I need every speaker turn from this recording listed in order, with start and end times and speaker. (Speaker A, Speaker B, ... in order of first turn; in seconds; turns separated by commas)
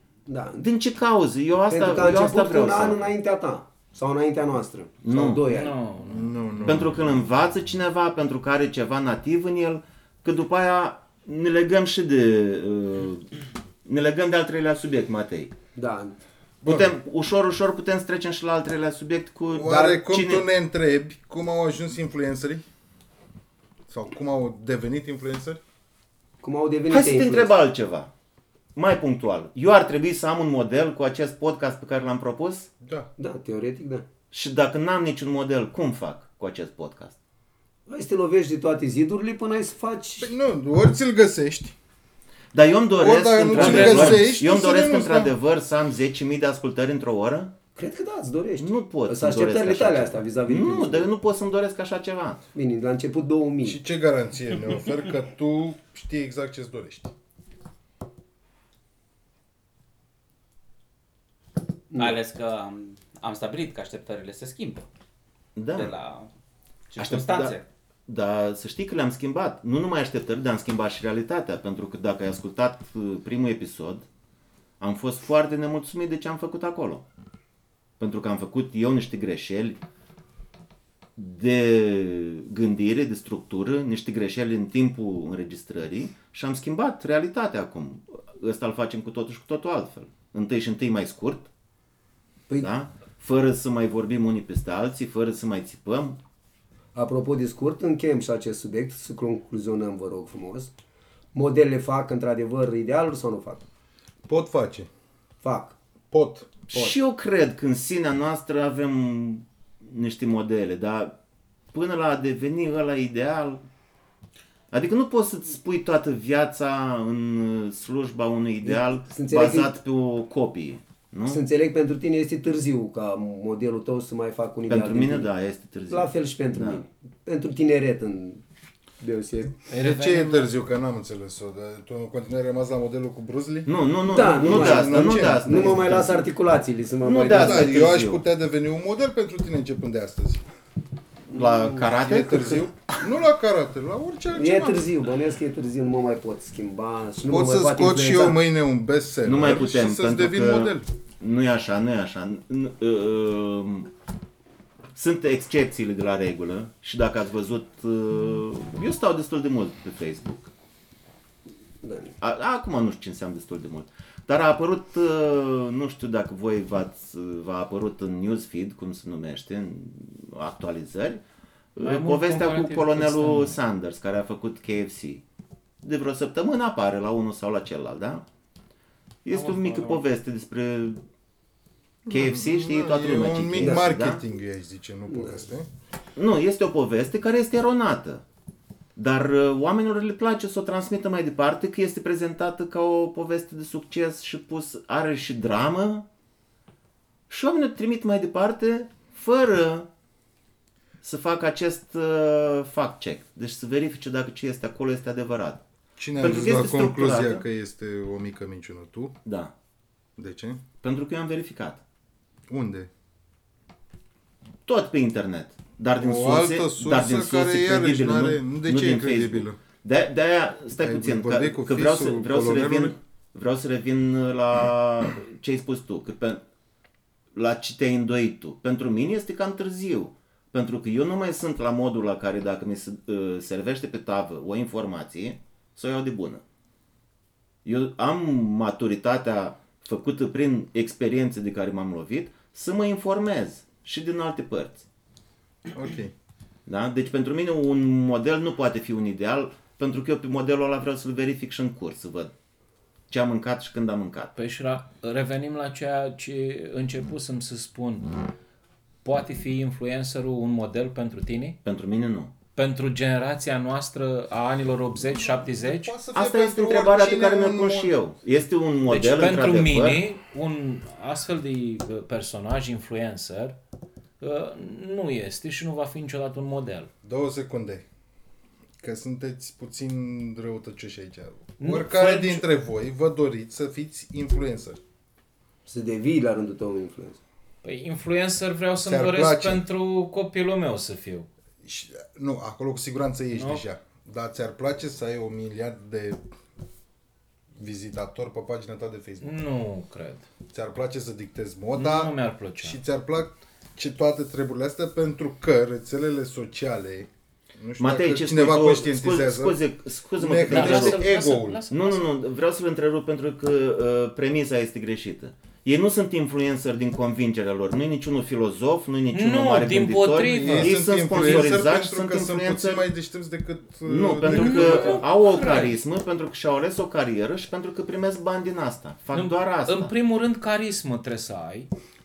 Speaker A: 0.3-0.7, Speaker B: 0.6-3.1, Speaker A: 1.7-5.7, Speaker B: 5.0-5.4, Speaker C: 5.5-6.8, Speaker D: 6.0-7.1, Speaker B: 6.6-13.3, Speaker B: 13.8-15.5, Speaker A: 15.7-16.2, Speaker B: 16.6-20.4, Speaker D: 16.6-16.9, Speaker D: 19.5-22.6, Speaker A: 19.6-20.0, Speaker D: 23.9-25.6, Speaker A: 26.4-27.5, Speaker B: 26.9-28.1, Speaker B: 28.8-32.7, Speaker D: 32.8-33.1, Speaker A: 33.2-34.0, Speaker B: 34.3-37.2, Speaker A: 37.9-40.3, Speaker D: 40.2-41.7, Speaker B: 42.5-47.5, Speaker D: 42.9-45.4, Speaker C: 43.5-44.3, Speaker A: 47.8-51.1, Speaker B: 48.6-52.4, Speaker A: 52.5-53.8, Speaker D: 53.6-57.1, Speaker E: 61.9-64.9, Speaker B: 65.5-65.9, Speaker E: 65.7-66.3, Speaker E: 66.9-67.7, Speaker B: 67.0-74.0, Speaker B: 74.8-77.0, Speaker B: 78.0-79.8, Speaker B: 81.2-91.5, Speaker B: 92.6-96.2, Speaker A: 96.9-100.7, Speaker A: 101.3-103.6, Speaker D: 104.3-104.9, Speaker A: 105.4-105.8, Speaker D: 106.1-106.5, Speaker B: 106.7-111.2, Speaker B: 111.7-113.6, Speaker B: 114.7-121.4, Speaker A: 118.6-119.7, Speaker A: 121.3-125.3, Speaker B: 124.7-126.8, Speaker A: 125.9-128.4, Speaker A: 129.0-129.6, Speaker C: 129.7-130.5, Speaker D: 129.8-133.7, Speaker B: 133.7-136.3, Speaker A: 134.1-137.7, Speaker D: 134.4-135.9, Speaker B: 137.0-138.2, Speaker D: 137.3-140.4, Speaker B: 141.3-142.9, Speaker D: 141.9-144.9, Speaker A: 144.3-148.4, Speaker D: 147.3-150.8, Speaker B: 149.2-153.9, Speaker B: 154.9-160.5, Speaker A: 161.8-162.1, Speaker B: 162.2-171.2, Speaker B: 171.7-175.2, Speaker C: 171.8-173.6, Speaker B: 175.8-178.2, Speaker B: 179.2-181.0, Speaker C: 179.3-180.0, Speaker D: 182.1-185.7, Speaker B: 182.1-184.2, Speaker A: 183.6-183.8, Speaker A: 185.1-185.4, Speaker B: 186.2-188.2, Speaker B: 188.9-196.1, Speaker B: 197.3-199.9, Speaker B: 201.0-205.6, Speaker D: 206.0-209.1, Speaker B: 206.2-207.4, Speaker B: 209.2-209.5, Speaker D: 210.2-210.6, Speaker B: 210.8-211.8, Speaker D: 212.5-212.9, Speaker B: 214.7-226.4, Speaker D: 216.0-219.6, Speaker D: 220.8-222.9, Speaker B: 227.3-236.4, Speaker B: 237.6-244.8, Speaker D: 245.7-246.1, Speaker B: 246.7-252.3, Speaker B: 253.1-254.3, Speaker C: 254.3-258.1, Speaker C: 259.0-261.6, Speaker B: 261.6-262.3, Speaker C: 262.6-265.9, Speaker D: 265.2-267.9, Speaker B: 266.1-270.0, Speaker C: 268.9-273.5, Speaker C: 274.2-276.9, Speaker D: 277.0-277.8, Speaker D: 278.8-284.8, Speaker C: 281.6-282.4, Speaker A: 285.6-287.2, Speaker C: 287.6-291.3, Speaker D: 288.8-289.6, Speaker D: 291.6-296.2, Speaker C: 293.3-293.6, Speaker D: 297.6-299.4, Speaker C: 299.2-300.2, Speaker D: 300.5-309.6, Speaker C: 301.7-302.8, Speaker B: 307.8-311.0, Speaker D: 310.2-311.6, Speaker C: 310.5-312.1, Speaker B: 311.7-322.9, Speaker C: 319.1-321.6, Speaker D: 320.2-325.1, Speaker B: 323.9-329.9, Speaker C: 324.2-325.8, Speaker C: 329.1-331.7